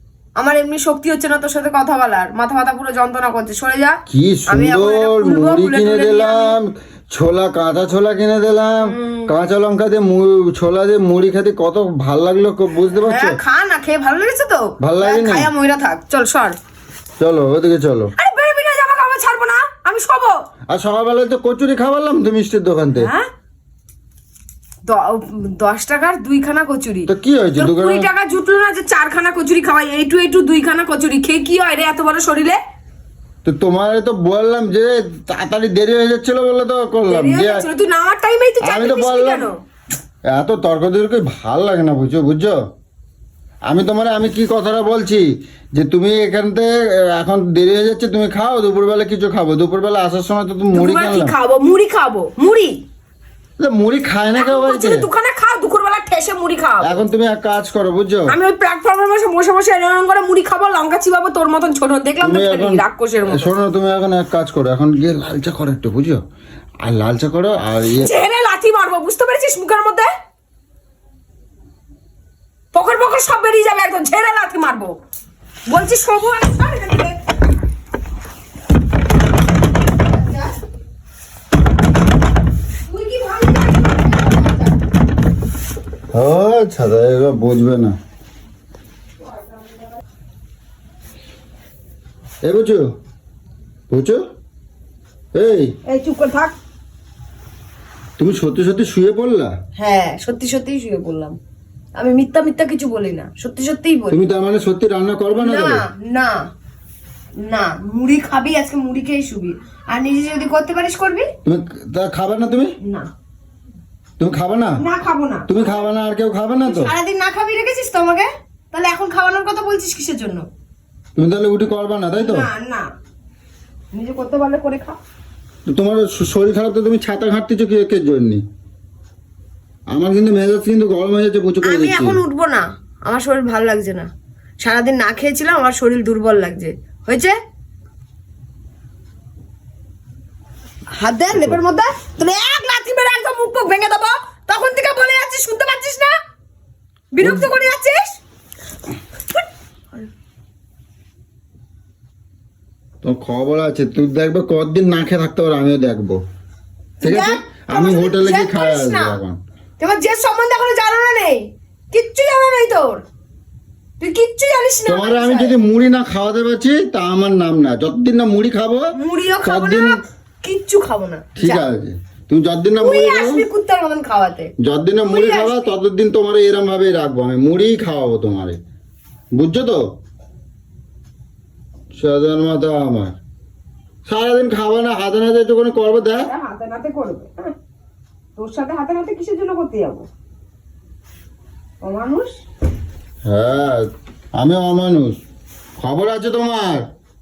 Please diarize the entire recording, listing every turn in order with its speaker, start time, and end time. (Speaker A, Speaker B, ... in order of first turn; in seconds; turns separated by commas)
Speaker A: 0.4-6.6, Speaker B: 4.1-13.4, Speaker A: 8.8-9.3, Speaker A: 13.0-16.6, Speaker B: 14.8-15.5, Speaker B: 17.2-18.1, Speaker A: 18.2-20.4, Speaker B: 20.7-23.1, Speaker A: 23.0-23.3, Speaker A: 24.9-32.6, Speaker B: 27.1-28.1, Speaker B: 33.4-37.6, Speaker A: 37.1-39.6, Speaker B: 38.6-39.5, Speaker B: 40.3-42.6, Speaker B: 43.6-51.4, Speaker A: 50.7-52.8, Speaker B: 53.6-55.1, Speaker A: 54.4-57.0, Speaker B: 56.8-58.4, Speaker A: 58.3-63.6, Speaker B: 62.2-66.2, Speaker B: 66.8-68.2, Speaker A: 68.0-70.1, Speaker A: 72.7-74.9, Speaker A: 75.7-77.2, Speaker A: 80.0-80.6, Speaker A: 82.9-84.8, Speaker B: 86.1-88.0, Speaker B: 92.4-92.9, Speaker B: 93.9-94.2, Speaker B: 95.3-95.7, Speaker A: 95.9-96.5, Speaker B: 98.2-99.5, Speaker A: 99.8-101.4, Speaker A: 102.0-104.2, Speaker B: 104.1-105.8, Speaker A: 105.3-106.5, Speaker A: 107.4-111.3, Speaker B: 111.4-112.8, Speaker A: 112.8-113.1, Speaker B: 114.2-114.8, Speaker A: 114.8-115.8, Speaker B: 115.5-116.9, Speaker A: 116.6-120.5, Speaker B: 121.2-122.5, Speaker A: 122.2-122.9, Speaker A: 123.9-125.0, Speaker B: 125.7-128.4, Speaker B: 129.9-132.2, Speaker A: 131.6-134.1, Speaker A: 134.6-137.3, Speaker A: 140.9-146.2, Speaker B: 141.3-141.6, Speaker A: 147.1-148.2, Speaker B: 147.2-147.5, Speaker B: 153.0-156.2, Speaker A: 157.0-159.2, Speaker B: 157.0-159.4, Speaker A: 159.8-163.0, Speaker A: 164.0-165.6, Speaker B: 164.9-170.0, Speaker A: 168.9-171.6, Speaker B: 171.4-173.5, Speaker A: 172.8-174.5, Speaker B: 174.6-178.6, Speaker A: 175.1-175.7, Speaker B: 179.3-179.8, Speaker B: 181.9-183.2, Speaker B: 184.1-186.3, Speaker A: 186.2-187.6, Speaker A: 188.4-190.1, Speaker A: 191.8-192.3, Speaker B: 193.2-195.2, Speaker B: 195.8-196.9